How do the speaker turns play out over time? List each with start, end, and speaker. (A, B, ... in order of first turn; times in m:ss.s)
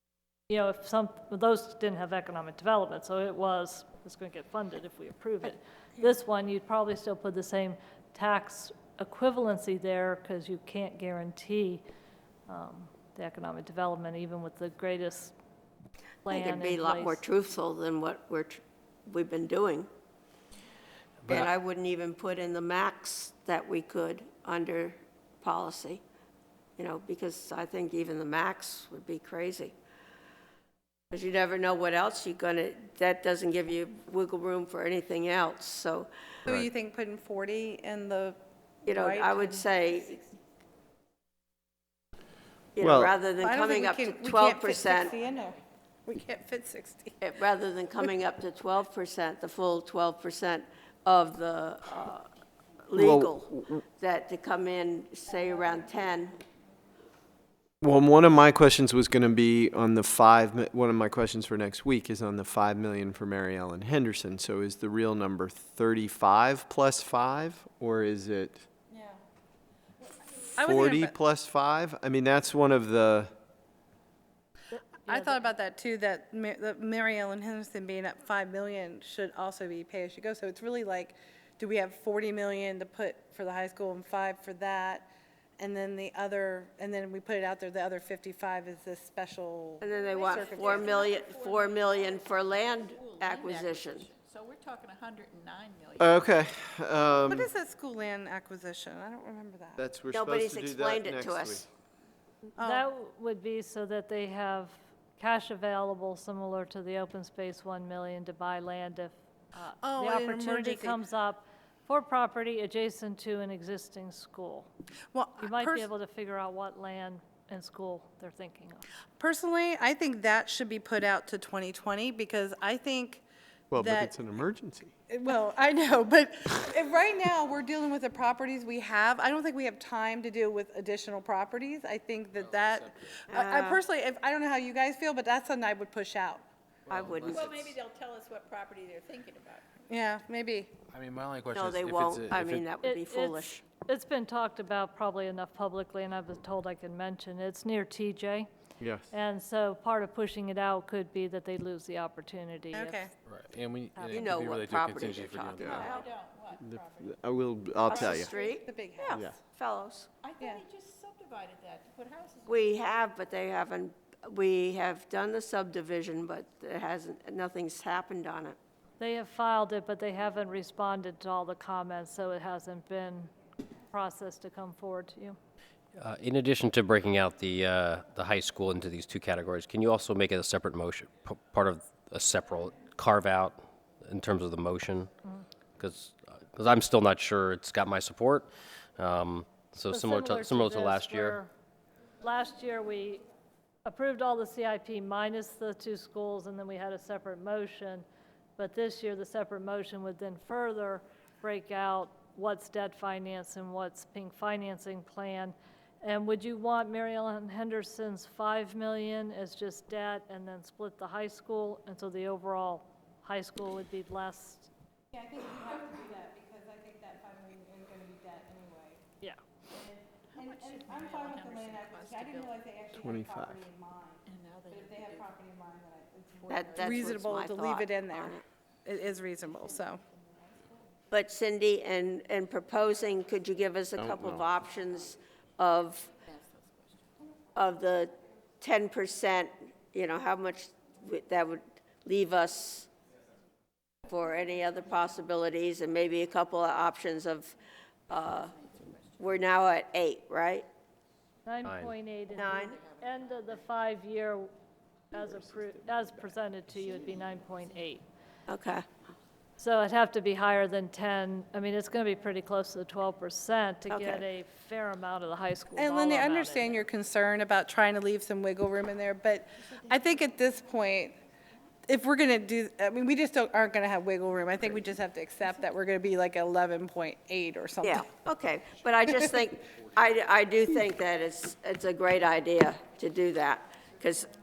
0:00.5-0:11.8 A
0:12.5-0:15.3 A
0:16.3-0:17.2 A
0:16.3-0:19.9 B
0:21.2-0:21.5 C
0:21.3-0:26.0 B
0:26.8-0:29.7 B
0:31.1-0:36.1 B
0:36.5-0:40.3 D
0:38.8-0:40.1 B
0:42.8-0:45.1 B
0:42.8-0:43.1 E
0:43.4-0:47.3 D
0:45.0-0:45.5 F
0:47.2-0:52.3 B
0:52.9-0:56.4 B
0:52.9-0:53.8 E
0:57.8-1:08.6 E
1:08.9-1:09.2 D
1:10.6-1:11.2 D
1:10.6-1:13.3 E
1:14.7-1:15.5 A
1:15.1-1:25.1 D
1:25.6-1:31.2 D
1:29.8-1:34.1 B
1:29.8-1:36.4 F
1:36.0-1:37.5 E
1:37.3-1:39.8 D
1:39.8-1:41.7 E
1:40.1-1:41.7 B
1:42.6-1:54.7 A
1:42.6-1:42.9 D
1:49.8-1:51.0 D
1:55.1-1:55.9 D
1:55.4-1:58.8 A
1:59.2-2:03.2 D
2:03.7-2:04.9 E
2:03.8-2:04.1 D
2:05.1-2:16.4 D
2:12.4-2:13.2 G
2:13.3-2:13.8 B
2:16.9-2:17.6 G
2:16.9-2:17.5 B
2:17.2-2:19.6 F
2:19.9-2:20.7 D
2:20.9-2:22.7 G
2:21.5-2:23.6 B
2:22.8-2:28.5 A
2:28.8-2:29.1 E
2:29.1-2:33.0 A
2:32.7-2:33.1 D
2:33.3-2:35.7 G
2:34.0-2:34.3 A
2:34.1-2:36.1 B
2:35.6-2:35.9 E
2:35.6-2:37.2 F
2:37.0-2:38.3 E
2:37.9-2:38.6 F
2:37.9-2:39.2 D
2:37.9-2:40.1 B
2:40.2-2:42.9 F
2:42.5-2:48.6 B
2:49.0-2:53.3 A
2:53.9-2:55.4 A
2:56.0-3:05.1 C
3:05.8-3:11.4 C
3:09.9-3:11.5 A
3:12.2-3:13.2 A
3:13.8-3:18.0 A
3:18.6-3:34.7 A
3:35.1-3:39.0 D
3:39.7-3:50.0 D
3:40.3-3:43.1 F
3:43.0-3:43.6 E
3:44.2-3:45.4 F
3:46.4-3:47.3 F
3:46.5-3:48.4 B
3:49.2-3:51.0 F
3:51.1-3:56.1 B
3:54.0-3:54.4 E
3:56.2-3:57.1 F
3:57.6-4:02.9 B
4:04.1-4:07.6 B
4:08.1-4:08.5 B
4:08.1-4:09.6 F
4:09.2-4:10.7 B
4:11.4-4:14.5 A
4:11.6-4:11.9 C
4:12.3-4:13.6 F
4:12.3-4:12.8 B
4:15.1-4:18.0 A
4:16.8-4:17.6 F
4:18.5-4:18.8 B
4:19.6-4:26.8 A
4:23.9-4:24.2 B
4:25.8-4:31.2 D
4:29.6-4:30.8 F
4:31.9-4:38.1 D
4:37.8-4:44.3 B
4:39.0-4:39.4 D